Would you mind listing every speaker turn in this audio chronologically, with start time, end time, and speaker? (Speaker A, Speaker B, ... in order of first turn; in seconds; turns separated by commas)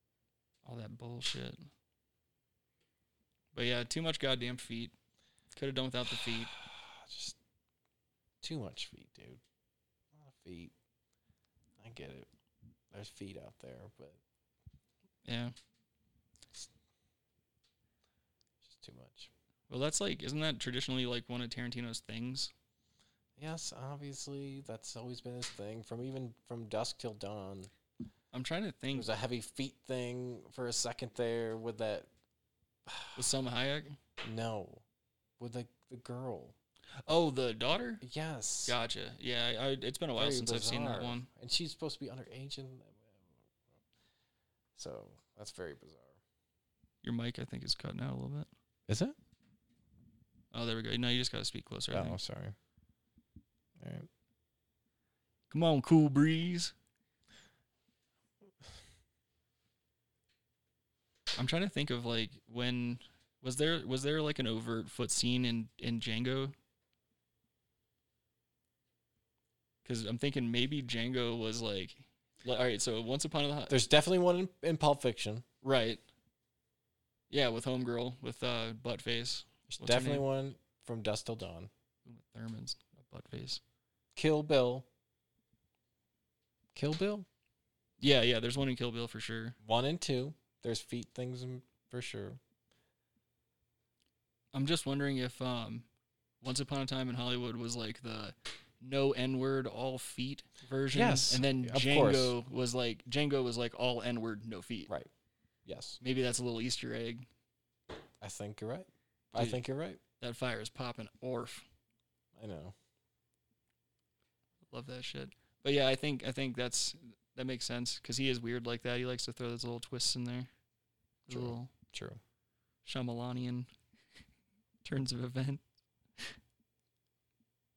Speaker A: 0.6-1.7, Speaker A: 3.5-5.0, Speaker A: 5.5-6.6, Speaker B: 6.5-7.4, Speaker B: 8.4-9.4, Speaker B: 10.1-10.7, Speaker B: 11.8-12.3, Speaker B: 12.9-14.2, Speaker A: 15.2-15.5, Speaker B: 18.6-19.3, Speaker A: 19.7-22.5, Speaker B: 23.4-27.7, Speaker A: 28.3-29.1, Speaker B: 28.9-32.1, Speaker B: 32.9-33.2, Speaker A: 33.1-34.0, Speaker B: 34.2-34.8, Speaker B: 35.4-36.5, Speaker A: 37.0-38.0, Speaker B: 38.0-38.8, Speaker A: 38.7-41.3, Speaker B: 40.2-43.4, Speaker B: 44.8-46.2, Speaker A: 47.0-48.5, Speaker B: 48.9-49.2, Speaker A: 50.5-52.2, Speaker B: 51.9-52.5, Speaker B: 53.8-54.1, Speaker A: 55.5-56.7, Speaker A: 61.4-66.5, Speaker A: 69.8-73.8, Speaker B: 73.7-75.5, Speaker A: 75.6-76.0, Speaker A: 77.3-80.3, Speaker B: 79.7-81.7, Speaker A: 82.1-83.6, Speaker B: 84.2-84.9, Speaker B: 86.8-87.3, Speaker A: 88.0-89.6, Speaker B: 89.6-92.4, Speaker A: 94.5-95.9, Speaker A: 96.4-104.9, Speaker B: 100.9-102.4, Speaker B: 105.7-106.0, Speaker A: 106.0-107.3, Speaker B: 108.2-110.0, Speaker A: 109.3-109.6, Speaker A: 110.2-111.7, Speaker B: 112.3-112.8, Speaker A: 114.7-120.5, Speaker A: 121.3-121.7, Speaker B: 121.3-122.2, Speaker A: 122.8-123.7, Speaker A: 124.8-125.6